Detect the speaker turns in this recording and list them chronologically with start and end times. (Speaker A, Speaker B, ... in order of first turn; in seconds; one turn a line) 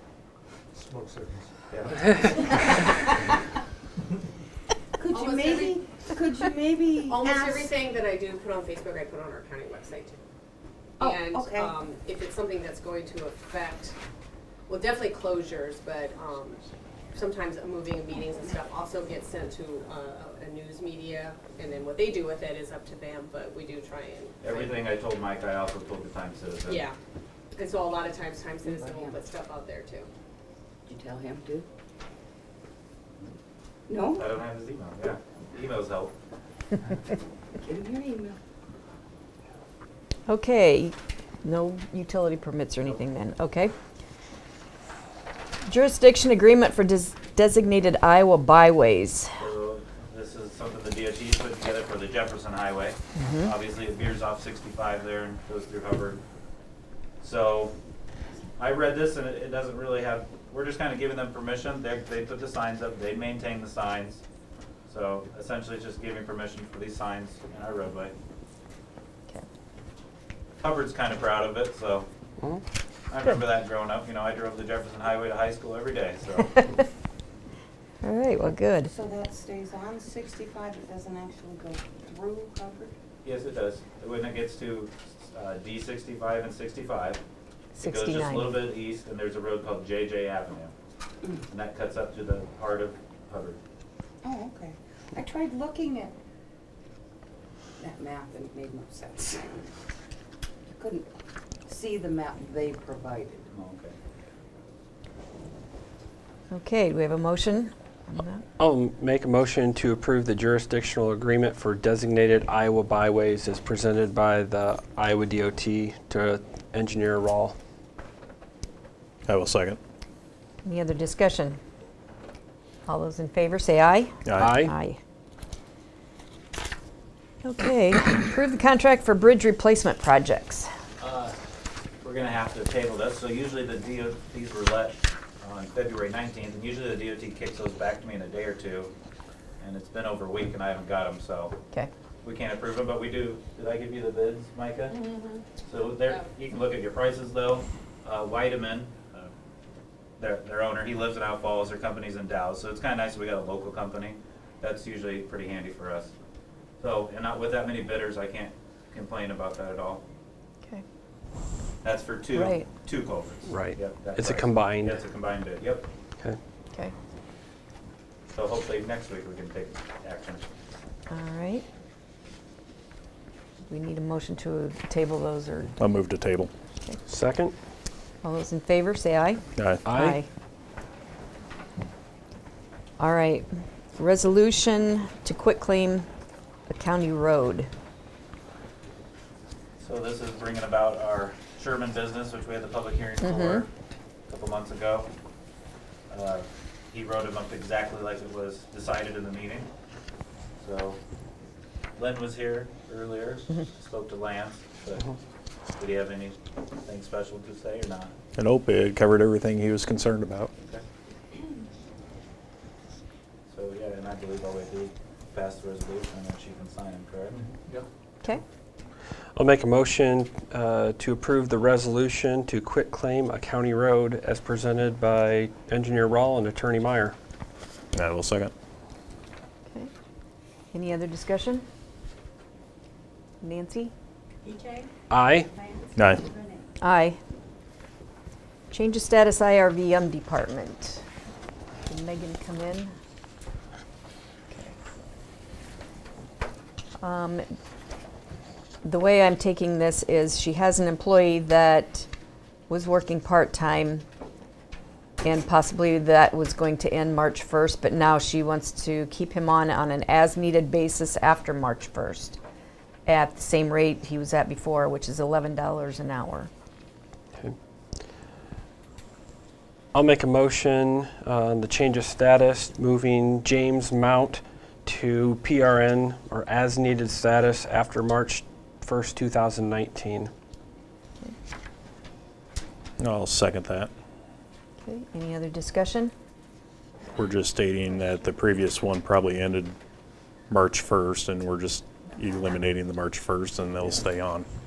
Speaker A: 1.7-2.0
Speaker B: 5.0-7.7
Speaker C: 5.1-5.8
Speaker C: 7.0-10.2
Speaker B: 11.0-11.7
Speaker C: 11.0-13.9
Speaker C: 14.7-16.6
Speaker C: 17.1-24.8
Speaker A: 24.4-26.8
Speaker C: 26.6-26.9
Speaker C: 27.6-30.1
Speaker B: 28.7-29.2
Speaker B: 30.9-31.7
Speaker B: 33.9-34.4
Speaker A: 34.1-36.1
Speaker B: 37.6-38.4
Speaker D: 40.3-43.7
Speaker D: 45.6-49.3
Speaker A: 49.4-56.2
Speaker D: 53.1-53.5
Speaker A: 57.2-57.7
Speaker A: 58.6-64.2
Speaker A: 64.8-68.1
Speaker A: 70.6-72.1
Speaker A: 73.1-76.7
Speaker D: 78.0-78.9
Speaker B: 78.9-82.9
Speaker A: 83.2-87.2
Speaker D: 87.7-88.7
Speaker A: 87.8-90.7
Speaker A: 91.5-93.6
Speaker B: 94.2-96.1
Speaker B: 97.8-99.7
Speaker B: 100.7-101.1
Speaker B: 101.7-103.5
Speaker A: 103.5-104.0
Speaker D: 106.5-108.4
Speaker E: 108.6-117.6
Speaker F: 119.2-119.8
Speaker D: 120.6-121.6
Speaker D: 122.9-125.0
Speaker F: 124.2-124.6
Speaker E: 124.3-124.7
Speaker D: 127.4-130.7
Speaker A: 131.0-131.3
Speaker A: 132.0-138.9
Speaker A: 139.6-141.6
Speaker A: 142.2-145.0
Speaker A: 145.6-149.3
Speaker A: 150.2-156.1
Speaker A: 156.8-160.0
Speaker A: 161.8-165.9
Speaker D: 162.3-162.7
Speaker E: 163.5-165.0
Speaker A: 168.3-170.5
Speaker D: 171.1-171.6
Speaker D: 173.7-175.8
Speaker F: 175.8-176.5
Speaker E: 177.1-177.5
Speaker D: 178.2-180.3
Speaker F: 179.6-179.8
Speaker E: 179.8-180.2
Speaker D: 183.0-186.1
Speaker D: 186.7-187.7
Speaker A: 189.8-193.7
Speaker D: 193.2-193.6
Speaker A: 194.3-195.1
Speaker A: 196.1-199.7
Speaker A: 200.6-201.0
Speaker A: 201.9-205.1
Speaker A: 205.8-208.1
Speaker F: 208.3-210.5
Speaker A: 213.5-217.5
Speaker E: 219.3-227.2
Speaker F: 227.9-228.5
Speaker D: 230.7-231.6
Speaker D: 233.4-233.9
Speaker E: 235.1-235.5
Speaker F: 236.0-236.2
Speaker D: 236.8-237.2
Speaker D: 238.7-241.0
Speaker D: 241.8-242.9
Speaker D: 247.0-247.4
Speaker D: 248.8-252.1
Speaker D: 252.7-254.0
Speaker D: 255.2-262.4
Speaker D: 263.1-266.5
Speaker E: 269.9-280.3
Speaker F: 283.0-283.9
Speaker D: 284.8-286.1
Speaker F: 287.1-289.7
Speaker F: 290.5-294.4